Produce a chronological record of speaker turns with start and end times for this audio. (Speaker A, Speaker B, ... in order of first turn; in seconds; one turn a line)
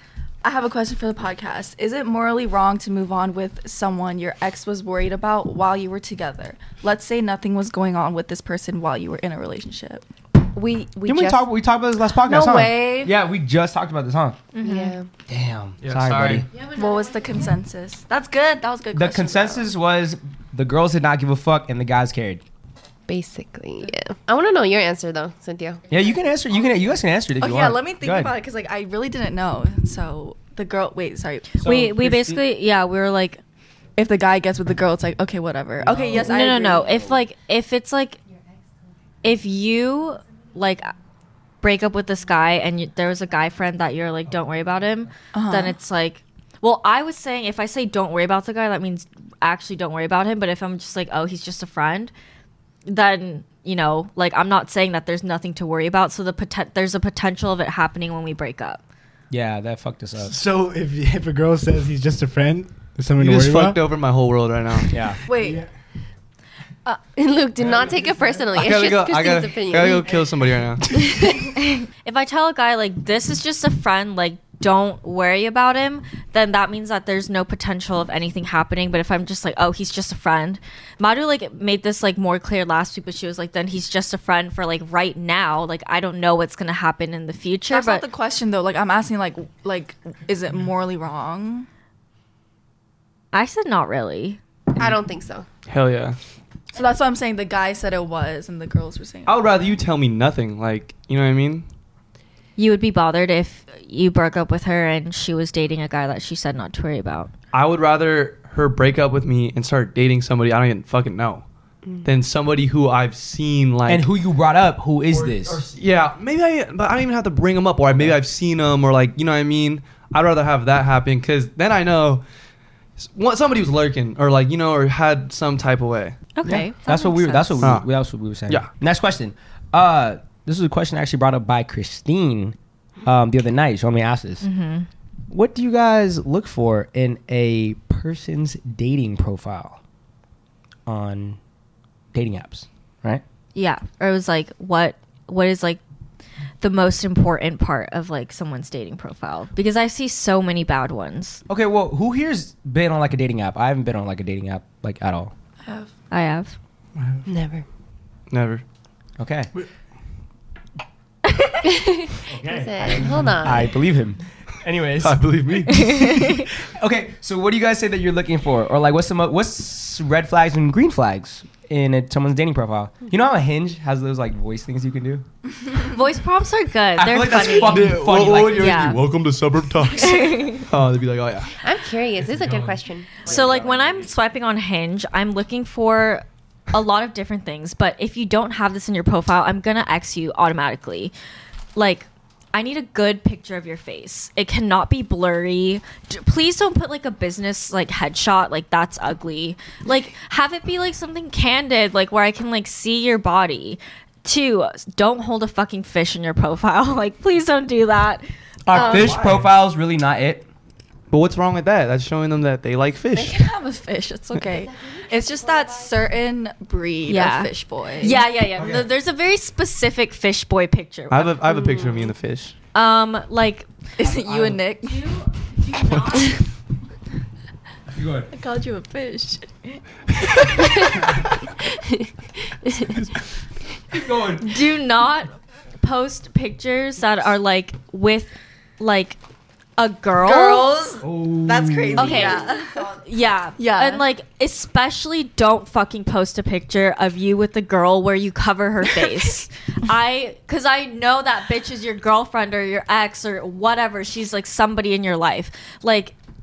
Speaker A: 0.4-10.1
Speaker B: 10.5-11.5
Speaker C: 11.1-14.4
Speaker B: 12.1-13.2
Speaker D: 14.5-14.9
Speaker B: 14.6-15.1
Speaker C: 15.3-16.5
Speaker E: 15.8-16.5
Speaker B: 16.6-17.0
Speaker A: 16.6-19.7
Speaker C: 18.9-22.4
Speaker B: 23.1-25.9
Speaker C: 25.9-28.4
Speaker A: 26.5-26.8
Speaker A: 27.4-31.7
Speaker D: 31.6-33.4
Speaker C: 31.6-32.4
Speaker A: 34.0-37.0
Speaker C: 35.8-37.2
Speaker D: 36.1-38.2
Speaker D: 39.2-40.9
Speaker D: 41.6-52.1
Speaker A: 45.3-45.8
Speaker D: 52.9-58.8
Speaker C: 59.3-60.4
Speaker F: 60.2-63.8
Speaker E: 63.2-65.0
Speaker C: 64.9-65.2
Speaker A: 65.3-65.6
Speaker F: 65.3-65.7
Speaker B: 67.1-70.2
Speaker C: 67.6-68.1
Speaker E: 68.5-70.9
Speaker B: 71.0-71.4
Speaker D: 72.0-88.1
Speaker A: 87.7-91.7
Speaker D: 93.3-94.4
Speaker B: 94.8-95.5
Speaker E: 95.7-96.2
Speaker A: 96.7-99.5
Speaker E: 99.3-101.7
Speaker D: 102.6-107.3
Speaker E: 107.5-111.5
Speaker E: 112.0-114.1
Speaker C: 113.9-115.6
Speaker E: 115.1-122.2
Speaker C: 117.9-118.2
Speaker E: 123.0-126.6
Speaker D: 126.3-127.8
Speaker C: 126.5-134.4
Speaker E: 127.6-127.9
Speaker D: 134.4-134.9
Speaker C: 135.3-139.8
Speaker C: 140.9-141.4
Speaker C: 142.1-143.2
Speaker D: 143.6-145.8
Speaker D: 146.6-151.4
Speaker C: 151.5-155.3
Speaker A: 155.6-155.9
Speaker D: 156.1-156.6
Speaker F: 156.9-157.3
Speaker B: 157.3-157.6
Speaker E: 158.3-158.6
Speaker C: 159.2-159.5
Speaker B: 161.7-163.8
Speaker C: 162.3-165.3
Speaker E: 165.0-166.2
Speaker D: 165.7-166.4
Speaker C: 166.3-175.2
Speaker D: 175.9-179.0
Speaker C: 176.9-178.9
Speaker E: 177.5-181.6
Speaker D: 179.9-180.7
Speaker B: 181.6-183.4
Speaker D: 183.2-191.1
Speaker D: 191.7-209.1
Speaker C: 208.7-210.4
Speaker E: 208.7-209.4
Speaker E: 211.1-213.4
Speaker A: 213.1-218.2
Speaker B: 214.6-215.9
Speaker D: 217.1-221.4
Speaker E: 221.1-222.6
Speaker B: 221.5-222.1
Speaker D: 222.7-223.7
Speaker A: 224.0-225.1
Speaker C: 224.0-224.6
Speaker D: 224.8-226.4
Speaker C: 227.9-228.3
Speaker A: 228.3-230.9
Speaker B: 232.7-232.9
Speaker C: 233.9-234.6
Speaker D: 234.4-239.2
Speaker D: 239.8-240.8
Speaker A: 240.2-243.0
Speaker C: 241.0-242.4
Speaker D: 241.9-256.1
Speaker A: 243.6-244.1